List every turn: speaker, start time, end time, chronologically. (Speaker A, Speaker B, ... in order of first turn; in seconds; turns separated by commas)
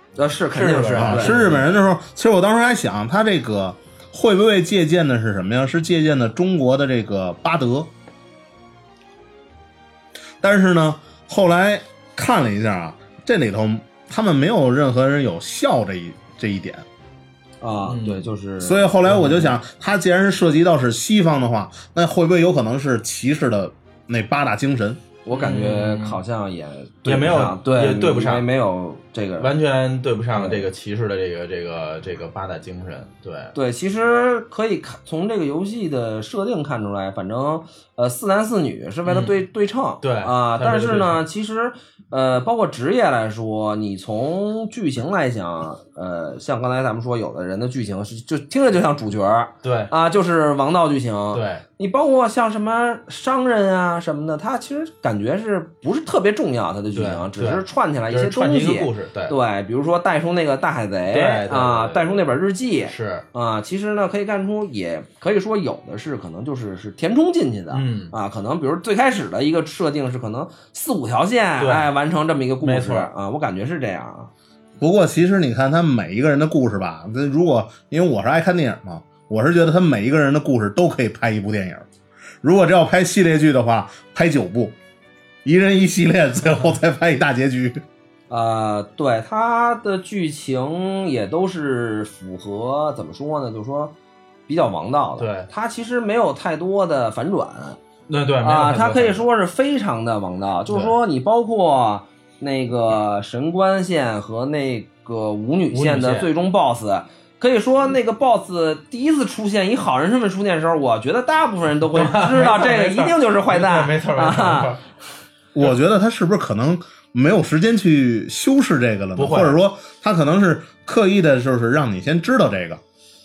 Speaker A: 0.2-1.6, Speaker B: 0.5-1.6, Speaker C: 0.9-7.9, Speaker C: 10.4-16.9, Speaker A: 17.6-18.8, Speaker B: 17.8-18.2, Speaker C: 18.6-25.0, Speaker B: 19.0-19.6, Speaker A: 25.2-29.5, Speaker B: 25.3-26.2, Speaker B: 27.1-28.5, Speaker B: 29.4-33.5, Speaker A: 30.3-30.7, Speaker A: 33.5-74.3, Speaker B: 39.0-39.4, Speaker B: 40.0-41.2, Speaker B: 49.6-49.9, Speaker B: 51.3-51.6, Speaker B: 56.9-59.3, Speaker B: 61.1-62.3, Speaker B: 62.9-63.2, Speaker B: 67.7-68.1, Speaker B: 71.6-71.9, Speaker B: 72.6-73.1, Speaker C: 74.8-81.9, Speaker C: 82.4-84.8, Speaker C: 85.4-87.8, Speaker A: 88.3-93.9, Speaker A: 94.5-97.8, Speaker B: 95.2-95.5, Speaker B: 98.1-99.2, Speaker A: 98.4-114.8, Speaker B: 105.7-106.3, Speaker B: 111.9-114.8, Speaker C: 115.5-122.8, Speaker B: 119.2-119.6